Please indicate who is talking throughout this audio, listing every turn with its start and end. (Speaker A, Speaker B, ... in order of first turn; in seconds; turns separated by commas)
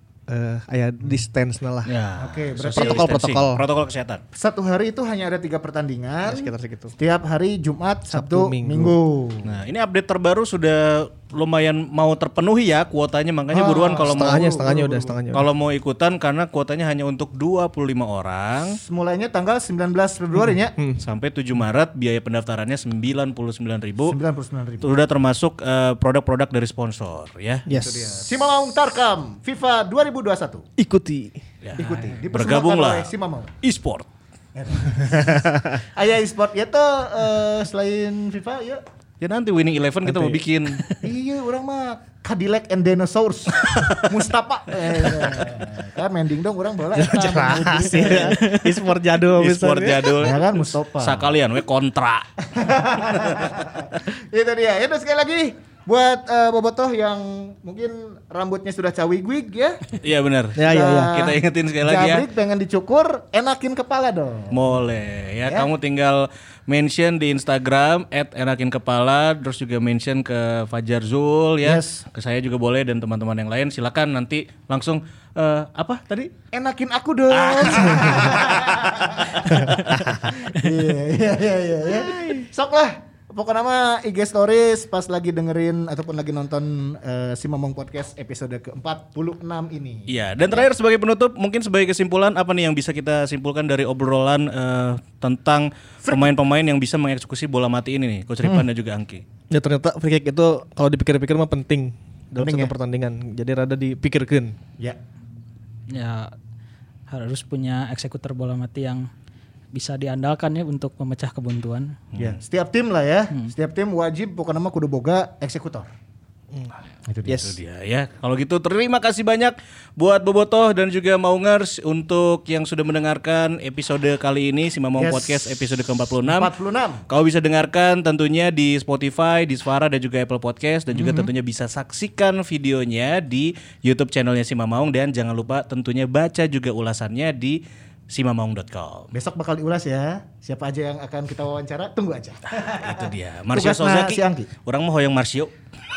Speaker A: 0.3-1.9, Speaker B: 1.9-4.2, Speaker C: 2.2-3.1, Speaker A: 2.7-3.6, Speaker C: 4.3-9.5, Speaker A: 6.2-7.0, Speaker A: 8.1-8.9, Speaker B: 9.4-14.6, Speaker C: 13.5-15.2, Speaker A: 13.9-15.4, Speaker B: 15.3-18.8, Speaker C: 18.7-20.7, Speaker B: 21.0-24.2, Speaker C: 24.1-24.9, Speaker B: 24.8-27.6, Speaker A: 27.6-28.2, Speaker C: 27.7-30.6, Speaker A: 30.8-31.4, Speaker B: 31.6-33.1, Speaker C: 31.8-33.5, Speaker B: 33.6-34.0, Speaker C: 34.5-38.8, Speaker B: 39.2-40.8, Speaker A: 40.0-40.4, Speaker C: 41.0-48.6, Speaker A: 46.9-50.3, Speaker B: 47.9-48.6, Speaker B: 49.3-52.3, Speaker C: 50.2-51.3, Speaker C: 52.5-59.8, Speaker B: 53.0-53.5, Speaker B: 60.0-62.3, Speaker A: 60.5-61.2, Speaker C: 60.6-64.7, Speaker B: 64.5-76.3, Speaker C: 71.6-72.0, Speaker C: 76.5-90.6, Speaker B: 77.3-80.3, Speaker B: 90.1-99.2, Speaker A: 99.5-104.5, Speaker C: 102.4-102.7, Speaker D: 105.9-106.3, Speaker D: 107.1-109.1, Speaker D: 109.7-112.0, Speaker B: 112.1-112.4, Speaker C: 112.2-115.9, Speaker C: 117.1-117.5, Speaker A: 117.2-117.5, Speaker B: 117.3-126.5, Speaker C: 125.0-127.0, Speaker B: 127.1-137.6, Speaker A: 131.0-131.2, Speaker B: 138.1-139.1, Speaker C: 139.1-144.5, Speaker B: 142.8-145.5